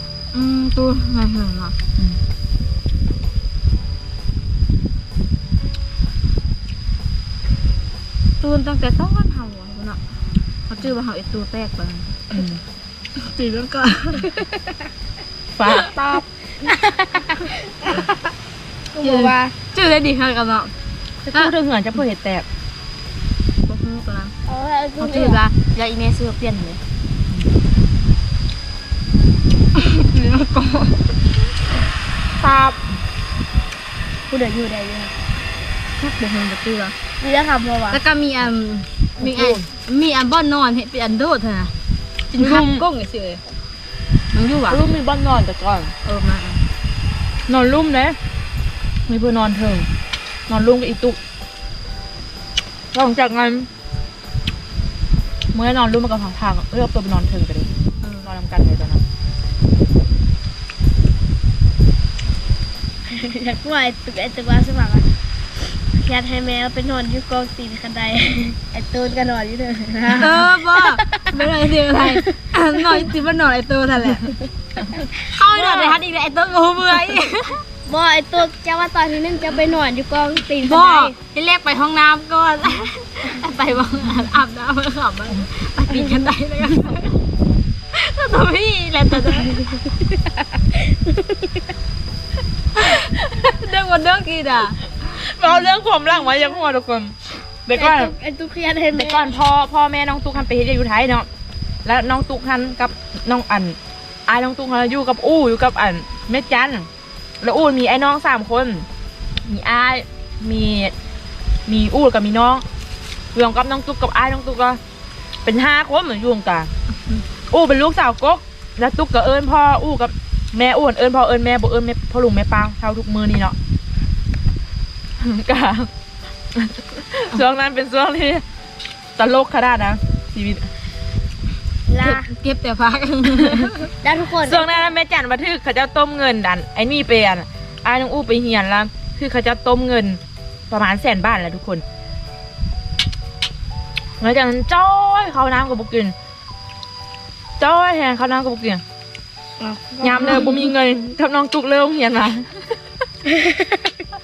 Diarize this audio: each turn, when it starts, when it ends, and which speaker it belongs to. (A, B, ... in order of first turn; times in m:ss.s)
0:00.3-0:01.8 A
0:08.4-0:10.0 A
0:10.7-0:12.2 A
0:12.3-0:12.6 B
0:13.2-0:14.3 A
0:15.5-0:16.2 B
0:16.6-0:17.7 C
0:18.9-0:19.5 C
0:19.0-0:20.7 A
0:21.2-0:22.4 B
0:23.7-0:24.3 A
0:24.4-0:25.4 C
0:25.0-0:26.8 A
0:29.7-0:31.1 A
0:32.4-0:32.9 B
0:34.3-0:35.1 C
0:36.0-0:36.9 A
0:37.2-0:38.0 C
0:37.9-0:41.7 A
0:39.2-0:39.7 B
0:42.3-0:43.4 A
0:42.3-0:42.8 B
0:44.3-0:44.8 A
0:44.7-0:45.9 B
0:46.0-0:46.6 A
0:47.5-0:48.2 B
0:49.1-0:49.9 B
0:50.5-0:51.2 B
0:52.9-0:53.7 B
0:55.5-0:57.7 B
0:58.0-0:58.3 A
0:58.2-0:59.0 B
1:03.1-1:05.0 C
1:06.0-1:11.3 C
1:10.2-1:14.3 A
1:14.9-1:16.0 C
1:15.2-1:17.6 A
1:17.8-1:21.1 C
1:20.6-1:27.2 A
1:27.9-1:29.6 A
1:30.6-1:31.7 C
1:32.8-1:35.2 A
1:35.1-1:38.1 B
1:37.8-1:39.3 C
1:38.9-1:41.3 B
1:41.8-1:46.9 B
1:47.4-1:48.9 B
1:49.4-1:50.9 B
1:51.7-1:52.6 B
1:53.3-1:54.8 B
1:55.4-1:56.7 B
1:57.5-2:03.6 B
2:05.2-2:05.9 B
2:06.5-2:08.4 B
2:09.2-2:10.7 B
2:11.9-2:12.3 C
2:12.0-2:13.9 A
2:14.0-2:14.6 C
2:14.4-2:21.8 B
2:24.2-2:26.1 B
2:27.6-2:28.8 B
2:29.6-2:30.7 C
2:30.0-2:32.7 B
2:33.3-2:33.9 C